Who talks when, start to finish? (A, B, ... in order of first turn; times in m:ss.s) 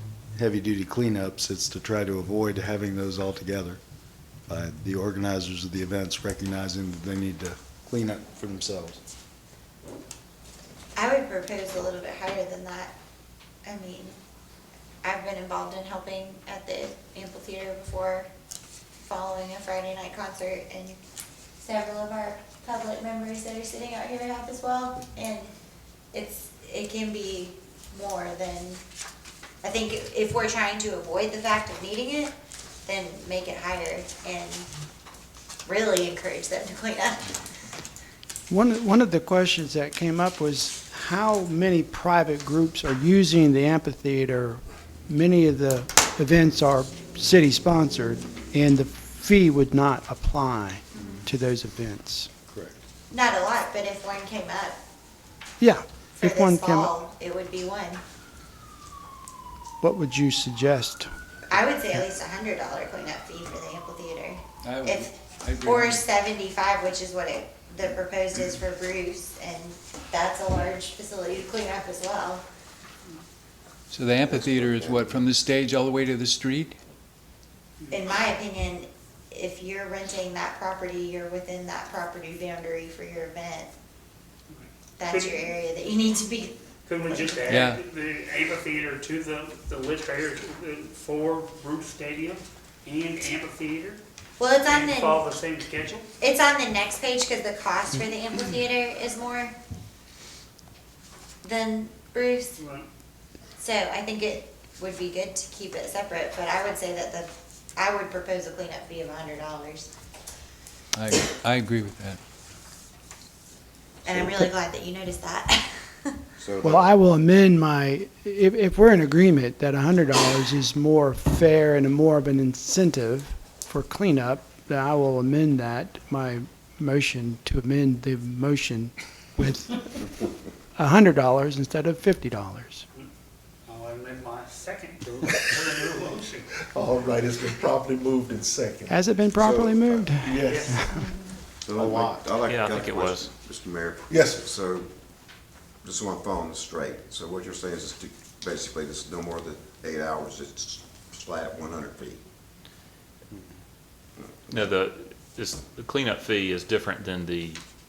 0:00.3-0:03.8 A
0:04.5-0:09.0 A
0:10.9-0:12.9 B
0:13.6-0:14.2 B
0:15.0-0:18.3 B
0:19.0-0:21.0 B
0:21.6-0:25.5 B
0:26.1-0:28.8 B
0:29.6-0:32.3 B
0:32.8-0:34.6 B
0:35.6-0:37.3 B
0:38.5-0:52.3 C
0:52.5-0:52.8 A
0:53.1-0:54.8 B
0:55.6-0:56.9 C
0:56.2-0:58.0 B
0:59.8-1:01.1 C
1:01.5-1:12.4 B
1:04.6-1:06.1 D
1:13.9-1:16.8 D
1:14.2-1:15.3 E
1:17.9-1:23.7 B
1:24.5-1:25.5 F
1:25.0-1:26.6 B
1:26.9-1:34.0 F
1:27.5-1:27.8 D
1:34.4-1:35.3 B
1:34.6-1:36.1 F
1:36.2-1:39.5 B
1:41.4-1:42.6 B
1:42.6-1:42.9 F
1:43.6-1:49.9 B
1:50.9-1:52.2 D
1:54.0-1:56.2 B
1:54.0-1:54.4 E
1:56.4-1:56.9 E
1:56.6-2:09.9 C
2:10.8-2:12.8 C
2:13.6-2:16.4 F
2:15.2-2:15.6 G
2:16.7-2:19.0 G
2:18.9-2:21.0 C
2:19.4-2:20.2 E
2:20.2-2:20.8 G
2:20.4-2:21.0 F
2:21.6-2:24.9 E
2:21.8-2:22.2 A
2:22.5-2:23.3 H
2:24.1-2:24.4 G
2:25.8-2:32.2 E
2:34.2-2:34.7 E
2:34.5-2:37.6 H